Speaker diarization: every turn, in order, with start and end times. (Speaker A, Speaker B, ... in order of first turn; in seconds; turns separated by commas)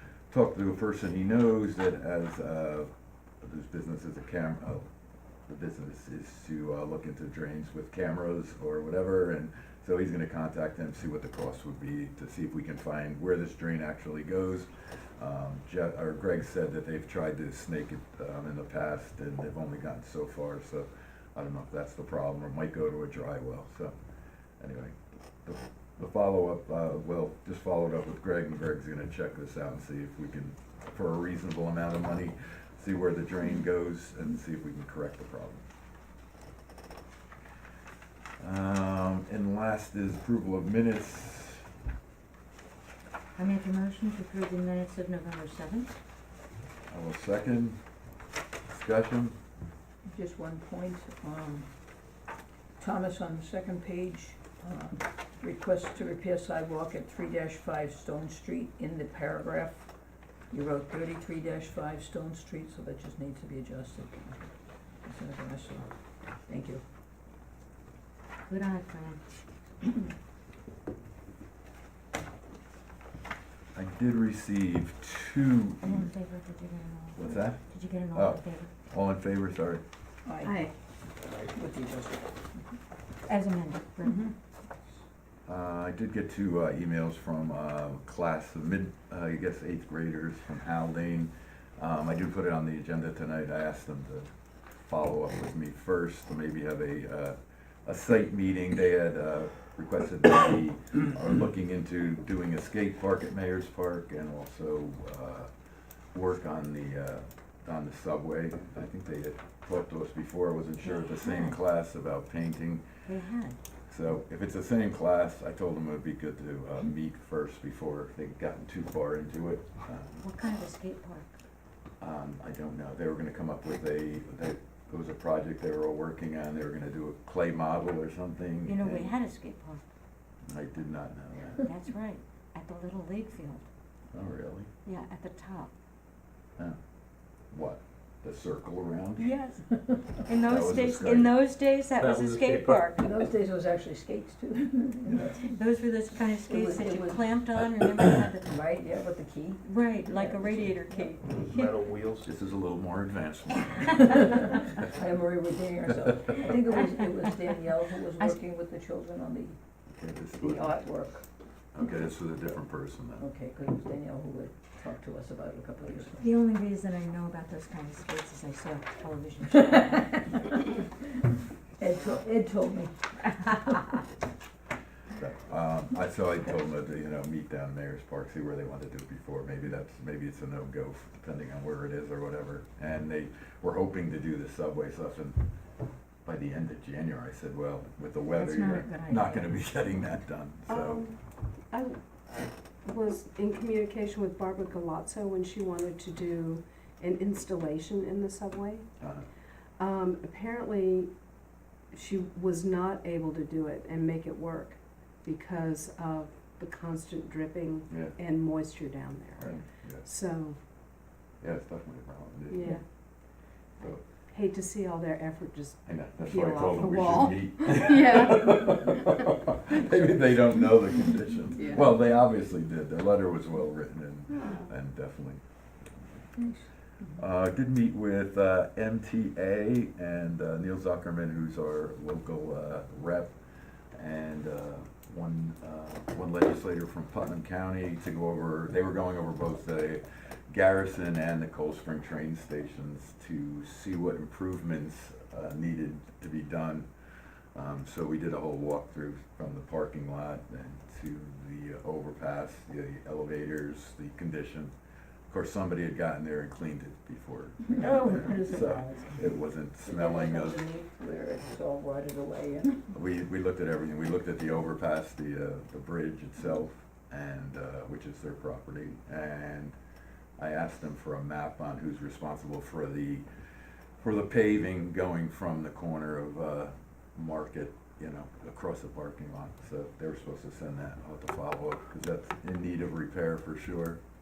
Speaker A: 0.3-2.9, Speaker A: 3.4-4.9, Speaker A: 5.5-23.9, Speaker A: 24.6-35.7, Speaker A: 38.4-41.6, Speaker B: 43.4-46.0, Speaker A: 46.9-47.8, Speaker A: 48.7-49.4, Speaker C: 50.1-51.7, Speaker C: 52.8-59.9, Speaker C: 60.5-64.5, Speaker C: 65.0-65.9, Speaker C: 66.5-66.8, Speaker B: 68.5-69.2, Speaker A: 73.8-76.1, Speaker B: 75.8-78.7, Speaker A: 77.1-77.6, Speaker A: 78.1-79.8, Speaker C: 80.2-80.6, Speaker D: 80.5-80.7, Speaker C: 81.3-82.6, Speaker B: 83.2-84.2, Speaker C: 84.0-84.3, Speaker A: 85.5-105.5, Speaker A: 106.1-112.9, Speaker B: 110.8-111.6, Speaker B: 113.0-113.6, Speaker A: 113.9-120.3, Speaker B: 120.2-121.3, Speaker A: 122.0-129.1, Speaker B: 128.7-129.8, Speaker A: 130.5-131.7, Speaker B: 131.6-133.7, Speaker A: 134.1-134.7, Speaker B: 134.8-135.7, Speaker A: 137.5-139.3, Speaker B: 139.2-143.0, Speaker A: 140.4-141.4, Speaker E: 142.0-142.9, Speaker C: 142.9-145.4, Speaker A: 145.1-145.4, Speaker B: 145.3-148.4, Speaker C: 146.3-147.3, Speaker C: 148.4-151.1, Speaker B: 149.7-151.8, Speaker E: 151.2-152.3, Speaker A: 152.2-154.2, Speaker C: 154.0-159.6, Speaker A: 159.9-160.8, Speaker C: 160.4-161.2, Speaker A: 161.7-163.3, Speaker C: 163.2-166.3, Speaker B: 166.2-170.3, Speaker C: 169.6-170.9, Speaker C: 171.8-173.6, Speaker A: 175.2-185.4, Speaker A: 186.2-191.0, Speaker B: 188.3-189.5, Speaker D: 190.7-198.9, Speaker A: 199.0-199.3, Speaker D: 199.8-201.1, Speaker D: 201.9-210.6, Speaker A: 207.9-208.1, Speaker A: 209.4-210.0, Speaker A: 211.4-212.7, Speaker D: 212.5-212.9, Speaker D: 213.8-220.5, Speaker A: 215.9-225.4, Speaker C: 221.5-221.9, Speaker C: 226.4-226.7, Speaker A: 227.2-233.3, Speaker A: 233.9-246.9, Speaker A: 247.5-254.7, Speaker A: 255.3-260.6, Speaker C: 257.7-258.1, Speaker B: 257.8-259.2, Speaker C: 259.9-262.9, Speaker A: 262.9-269.8, Speaker A: 270.4-273.2, Speaker A: 274.0-284.0